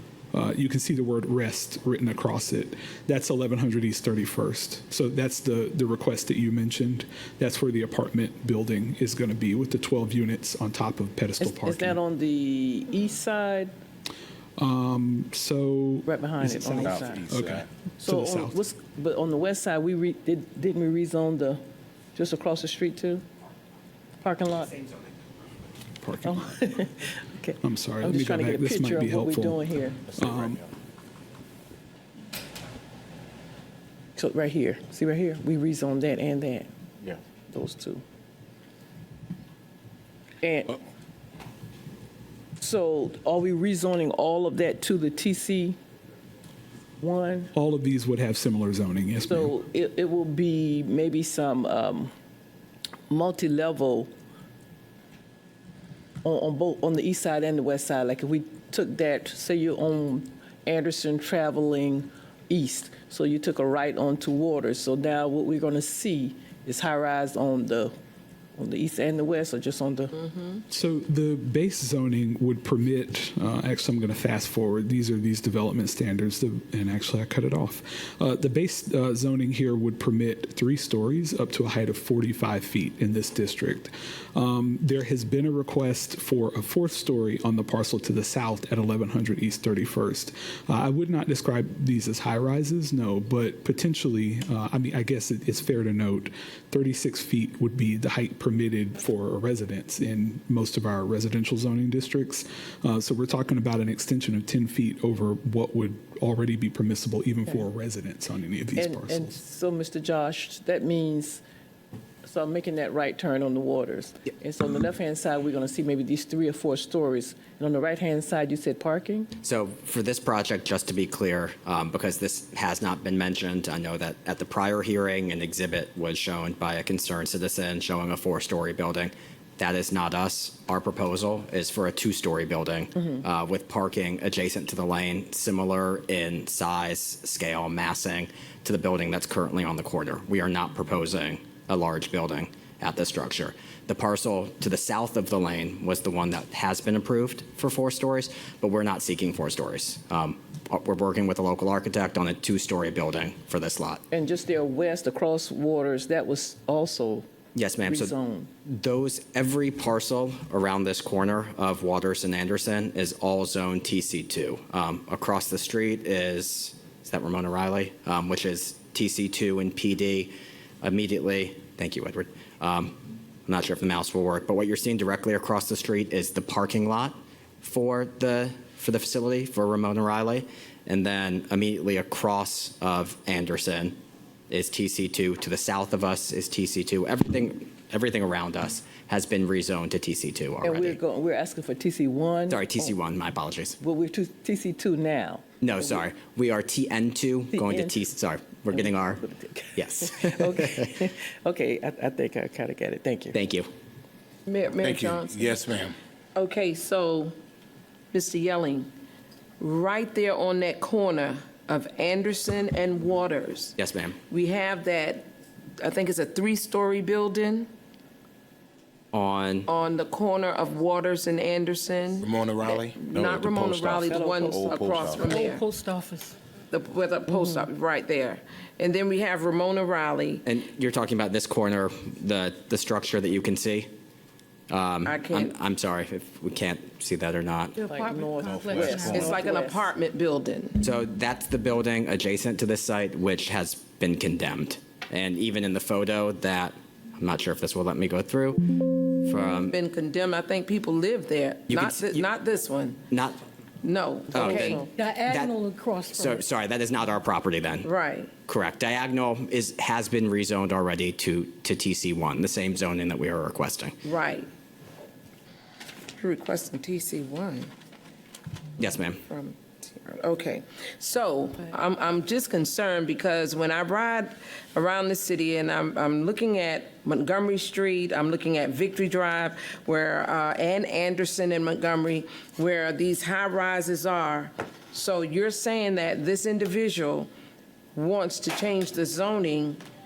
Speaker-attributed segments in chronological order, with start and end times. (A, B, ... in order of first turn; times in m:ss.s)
0:00.3-0:12.0 A
0:11.4-0:13.7 B
0:14.6-0:18.6 A
0:16.0-0:17.3 B
0:16.8-0:17.7 C
0:18.0-0:21.6 B
0:22.1-0:23.2 B
0:24.2-0:24.8 B
0:26.0-0:26.6 A
0:26.2-0:30.0 B
0:27.6-0:29.6 A
0:30.1-0:30.6 C
0:30.1-0:30.6 A
0:34.2-0:36.7 B
0:37.5-0:38.0 B
0:40.4-0:40.8 B
0:42.6-0:45.8 B
0:47.0-0:47.5 B
0:47.5-0:49.6 A
0:49.2-0:52.1 B
0:53.1-0:54.1 B
0:56.2-1:07.9 B
1:08.6-1:10.1 B
1:10.7-1:49.4 A
1:48.8-1:51.4 B
1:52.2-1:59.3 B
1:59.4-2:34.0 D
2:34.1-2:37.2 B
2:37.6-2:38.1 D
2:37.8-2:38.5 B
2:38.7-3:04.0 D
3:04.5-3:11.0 D
3:10.6-3:12.9 B
3:12.5-3:13.8 D
3:13.8-3:15.4 B
3:15.6-3:21.0 D
3:17.5-3:18.0 B
3:18.7-3:23.4 B
3:23.3-3:23.7 D
3:24.5-3:25.5 E
3:24.8-3:26.0 C
3:26.4-3:27.3 E
3:28.1-3:28.9 E
3:29.6-3:33.8 E
3:33.8-3:34.2 D
3:34.3-3:35.3 E
3:35.8-3:37.7 E
3:39.1-3:39.7 D
3:39.7-3:45.6 E
3:42.2-3:45.4 C
3:44.0-3:45.3 B
3:45.2-3:46.3 F
3:46.7-3:50.4 E
3:50.4-3:53.9 D
3:54.7-3:57.8 D
3:55.1-3:55.5 E
3:57.8-3:59.2 F
3:57.8-3:59.9 B
3:58.4-3:59.4 C
3:59.0-4:00.8 E
4:00.8-4:09.8 D
4:09.7-4:13.0 E
4:11.7-4:12.2 D
4:13.1-4:13.4 D
4:13.8-4:14.9 E
4:14.3-4:15.6 D
4:14.4-4:16.4 F
4:16.1-4:17.9 D
4:17.8-4:18.3 E
4:18.5-4:24.0 D
4:24.0-4:24.5 E
4:26.2-4:27.7 E
4:28.8-4:29.2 D
4:29.3-4:47.3 E
4:48.0-4:49.8 E